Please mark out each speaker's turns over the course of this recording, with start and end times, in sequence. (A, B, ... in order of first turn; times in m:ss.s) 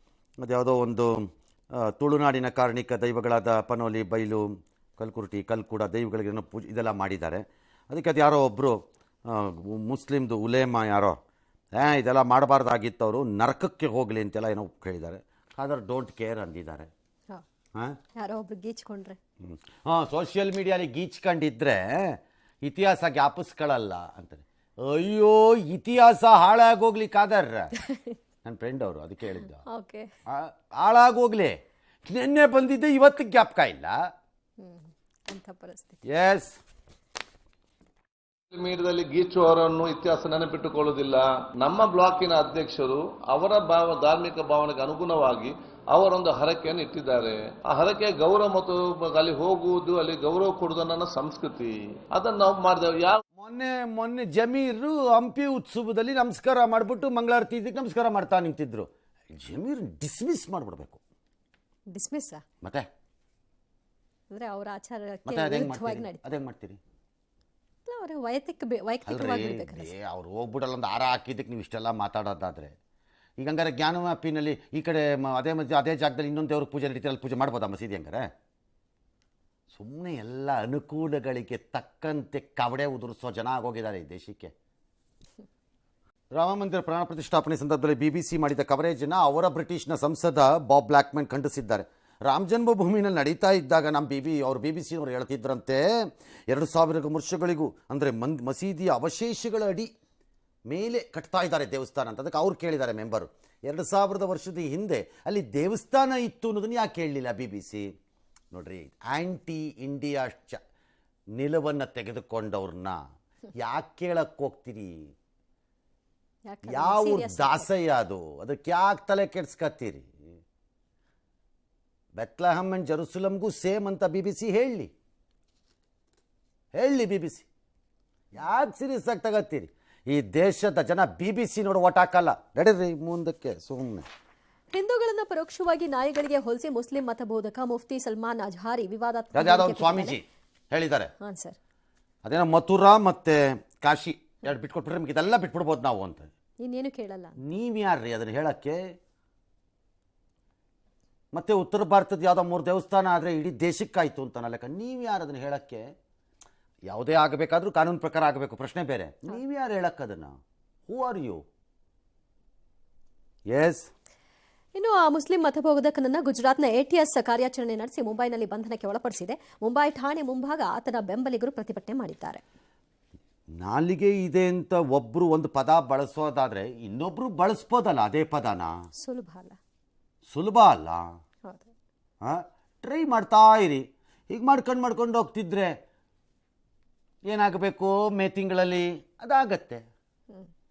0:00.4-0:01.3 A
0:01.9-0:04.4 A
0:05.0-0:11.2 A
0:11.8-0:16.9 A
0:18.2-0:19.2 B
0:19.4-0:27.7 A
0:27.8-0:28.2 B
0:28.4-0:29.6 A
0:29.7-0:30.1 B
0:30.3-0:34.0 A
0:34.6-0:36.0 B
0:36.0-0:36.6 A
0:38.5-0:53.2 C
0:53.4-1:01.0 A
1:01.9-1:02.4 B
1:04.3-1:06.2 B
1:05.3-1:06.8 A
1:07.9-1:09.9 B
1:09.1-1:12.7 A
1:13.4-1:18.3 A
1:19.7-1:24.5 A
1:26.3-1:35.8 A
1:36.5-1:39.9 A
1:40.7-1:47.9 A
1:48.5-1:50.6 A
1:51.4-1:53.0 A
1:53.6-1:55.1 A
1:56.5-1:57.7 B
1:56.7-2:00.1 A
2:02.2-2:04.9 A
2:06.7-2:07.5 A
2:08.3-2:14.1 A
2:14.7-2:20.2 B
2:19.4-2:21.1 A
2:21.2-2:21.6 B
2:22.2-2:26.3 A
2:26.6-2:27.4 B
2:27.4-2:28.8 A
2:31.3-2:35.9 A
2:36.9-2:40.3 A
2:40.9-2:41.4 A
2:43.5-2:43.9 A
2:44.8-2:52.4 B
2:53.6-2:58.7 A
2:59.0-2:59.6 B
3:00.3-3:01.1 A
3:01.5-3:01.7 B
3:02.2-3:05.8 A
3:07.3-3:09.8 A